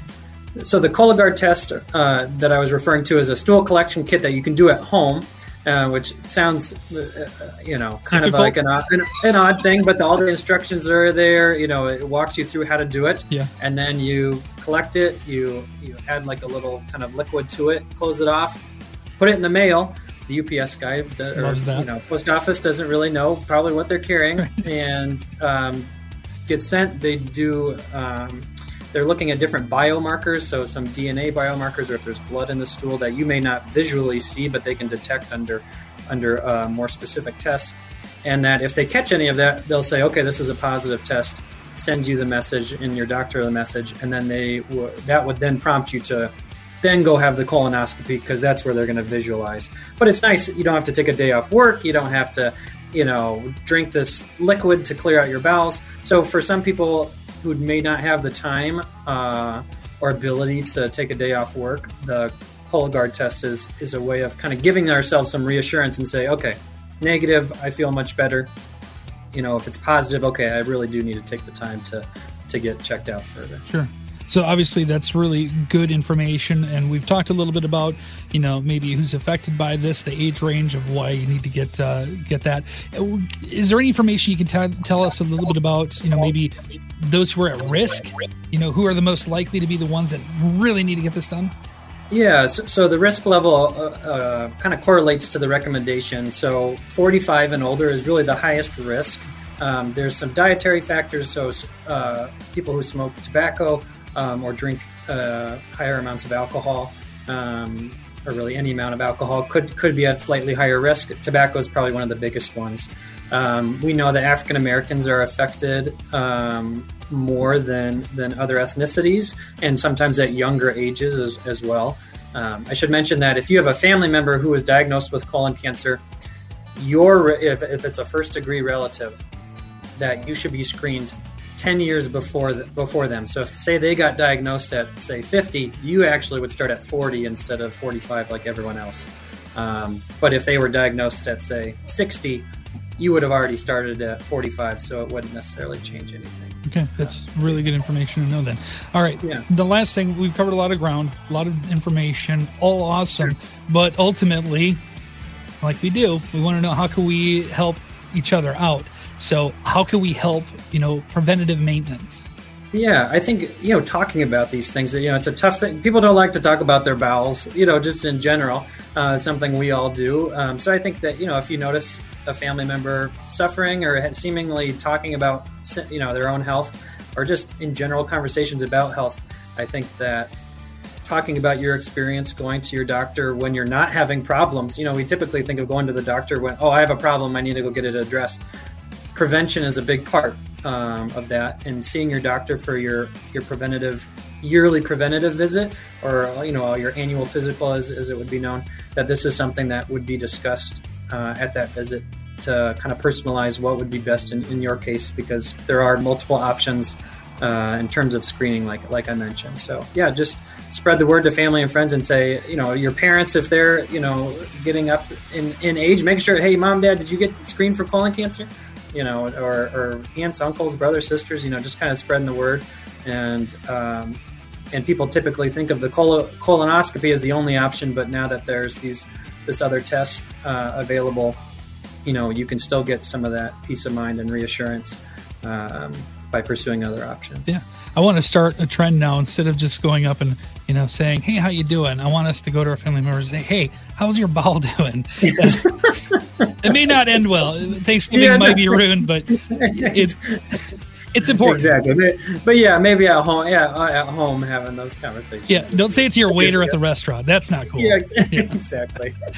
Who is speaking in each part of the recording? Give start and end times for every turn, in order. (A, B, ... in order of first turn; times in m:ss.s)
0:00.6-0:18.6 A
0:08.1-0:08.6 B
0:19.2-0:25.9 A
0:21.4-0:21.9 B
0:26.4-1:08.5 A
1:09.3-1:13.6 A
1:13.7-1:31.5 B
1:32.1-2:06.0 A
2:06.8-2:09.2 A
2:10.0-2:27.6 A
2:26.6-2:34.8 B
2:35.6-2:42.3 B
2:42.7-3:00.3 A
3:01.0-3:08.4 A
3:09.1-3:44.2 A
3:44.7-3:51.4 A
3:52.0-3:57.5 A
3:57.5-4:05.9 B
4:05.2-4:06.7 A
4:06.6-4:10.2 B
4:08.1-4:10.6 A
4:11.1-4:11.8 B
4:11.4-4:16.8 A
4:15.5-4:18.5 B
4:17.7-4:19.2 A